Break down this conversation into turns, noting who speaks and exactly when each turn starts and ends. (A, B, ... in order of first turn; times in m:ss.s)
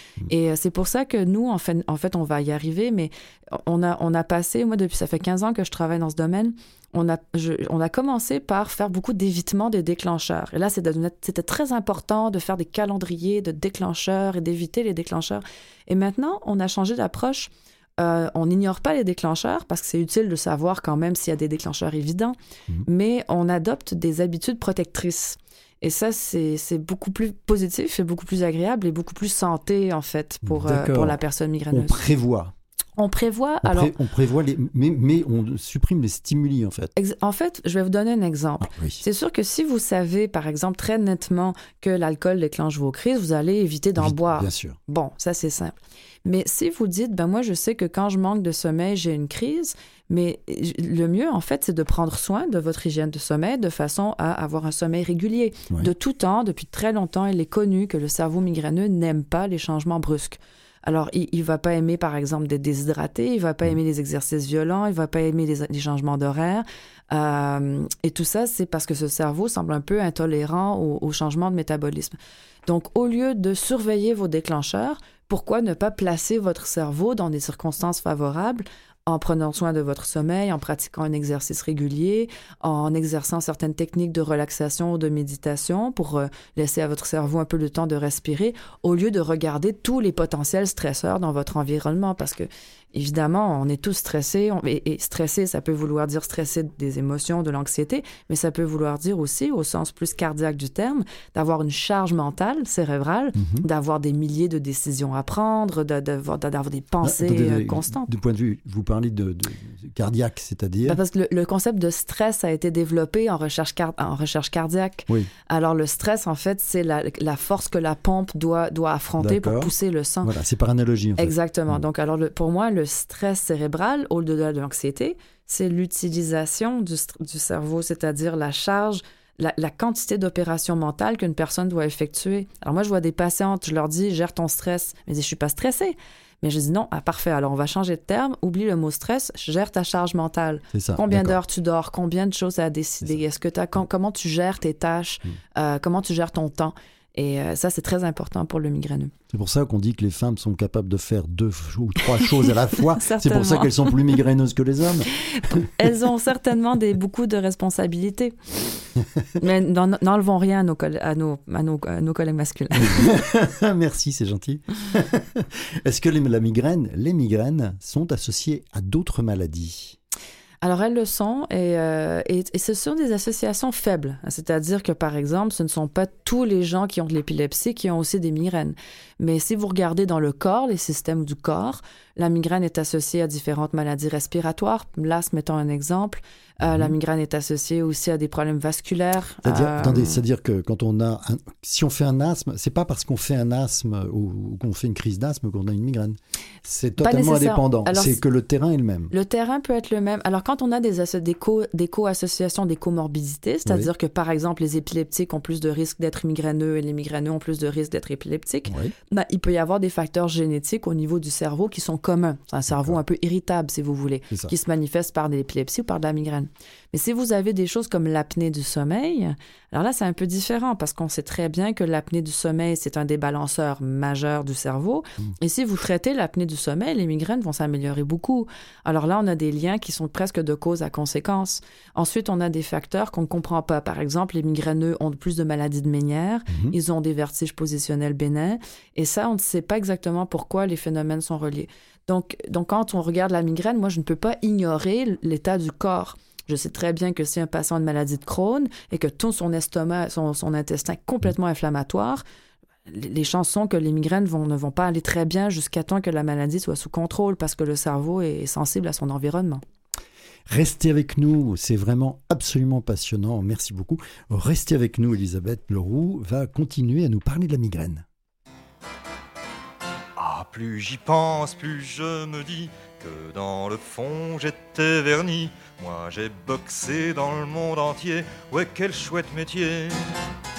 0:00.3-0:32.0 A
0:30.4-0:31.2 B
0:31.7-0:32.5 B
0:33.0-0:33.9 A
0:33.6-0:36.9 B
0:37.0-1:12.1 A
0:38.6-0:39.0 B
0:44.0-0:44.8 B
1:12.6-1:48.1 A
1:43.3-1:43.6 B
1:47.0-1:51.0 B
1:50.9-2:00.3 A
1:59.2-2:01.8 B
2:01.2-2:29.1 A
2:20.7-2:21.4 B
2:29.3-2:35.7 B
2:32.0-2:34.0 A
2:35.1-2:38.4 A
2:39.4-2:43.1 A
2:42.7-2:50.0 B
2:50.6-3:10.2 A
3:06.6-3:06.9 B
3:09.4-3:19.1 B
3:17.0-3:18.2 A
3:19.1-4:12.2 A
3:28.6-3:28.9 B
3:32.7-3:33.0 B
3:56.5-3:56.8 B
4:12.9-4:19.6 A
4:20.5-4:28.0 B
4:30.2-4:40.1 C